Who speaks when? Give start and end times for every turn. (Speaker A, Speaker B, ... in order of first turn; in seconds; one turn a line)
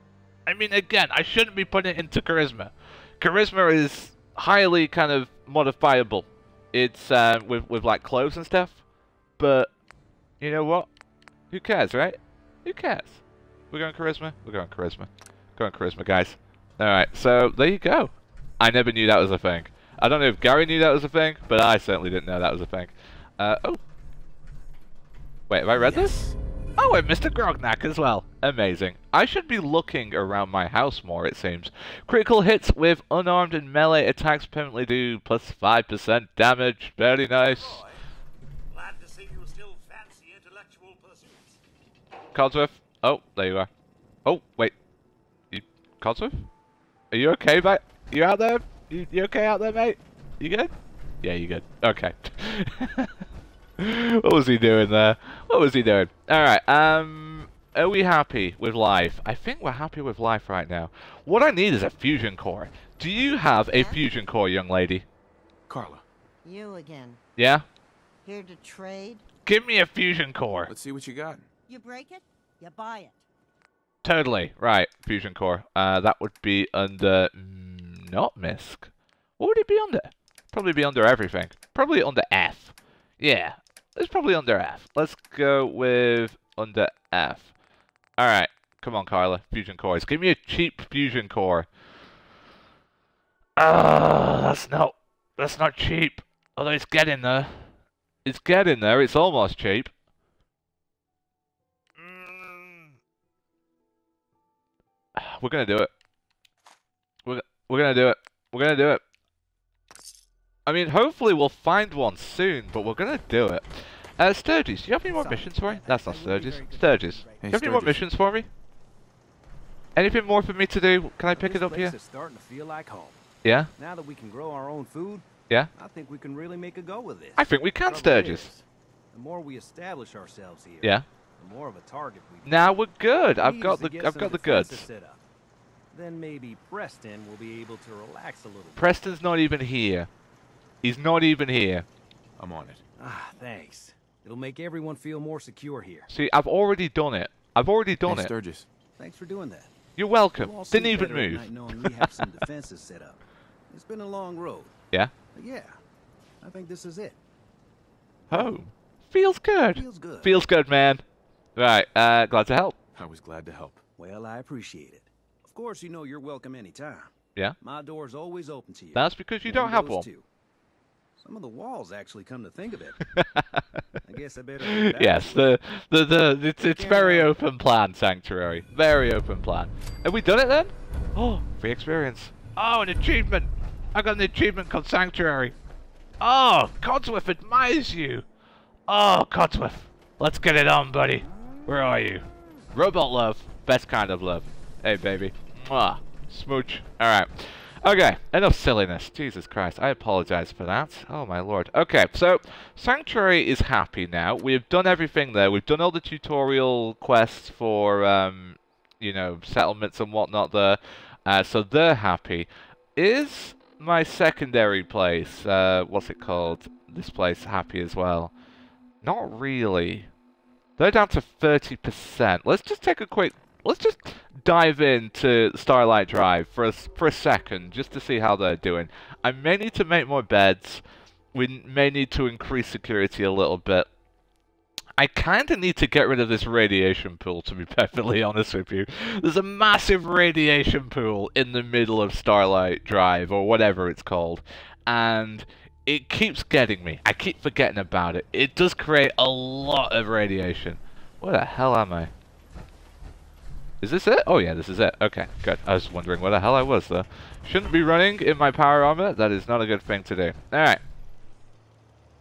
Speaker A: 0.5-8.8
Speaker A: 9.4-9.7
Speaker A: 10.4-10.9
Speaker A: 11.5-23.8
Speaker A: 25.5-37.8
Speaker B: 25.8-26.1
Speaker C: 37.4-38.0
Speaker C: 38.7-41.6
Speaker A: 42.3-43.7
Speaker A: 44.2-44.7
Speaker A: 45.5-46.5
Speaker A: 47.1-50.7
Speaker A: 51.2-53.1
Speaker A: 53.8-65.0
Speaker D: 63.7-64.0
Speaker E: 65.7-66.0
Speaker D: 66.4-67.2
Speaker A: 67.4-67.6
Speaker D: 68.2-69.2
Speaker A: 69.5-70.7
Speaker E: 70.7-71.5
Speaker D: 71.7-73.2
Speaker A: 74.0-87.5
Speaker A: 88.2-91.7
Speaker A: 93.6-97.6
Speaker A: 98.2-99.9
Speaker A: 102.0-102.9
Speaker A: 105.2-105.9
Speaker A: 107.2-109.0
Speaker A: 110.7-118.5
Speaker B: 115.1-117.4
Speaker E: 117.4-118.1
Speaker A: 120.0-122.0
Speaker B: 121.3-123.2
Speaker A: 123.4-123.7
Speaker B: 123.8-125.2
Speaker B: 125.8-132.6
Speaker A: 127.3-128.5
Speaker A: 132.4-134.8
Speaker B: 133.4-135.2
Speaker B: 135.9-138.8
Speaker A: 138.8-140.1
Speaker A: 140.8-141.8
Speaker E: 142.4-142.8
Speaker B: 143.0-146.1
Speaker A: 146.1-148.3
Speaker E: 148.0-148.7
Speaker B: 149.0-149.7
Speaker A: 150.0-152.3
Speaker B: 150.4-154.7
Speaker B: 155.3-155.8
Speaker B: 156.4-157.2
Speaker A: 158.3-161.0
Speaker B: 159.7-160.3
Speaker A: 161.6-162.8
Speaker E: 162.9-163.8
Speaker B: 164.0-167.1
Speaker B: 167.6-170.2
Speaker A: 168.9-170.1
Speaker B: 171.2-173.0
Speaker A: 173.0-173.6
Speaker B: 174.1-175.5
Speaker A: 174.6-185.5
Speaker B: 176.8-177.3
Speaker A: 186.2-188.2
Speaker A: 188.9-218.3
Speaker A: 219.0-220.1
Speaker A: 220.8-230.8
Speaker A: 231.3-233.9
Speaker A: 235.0-252.1
Speaker A: 253.8-260.8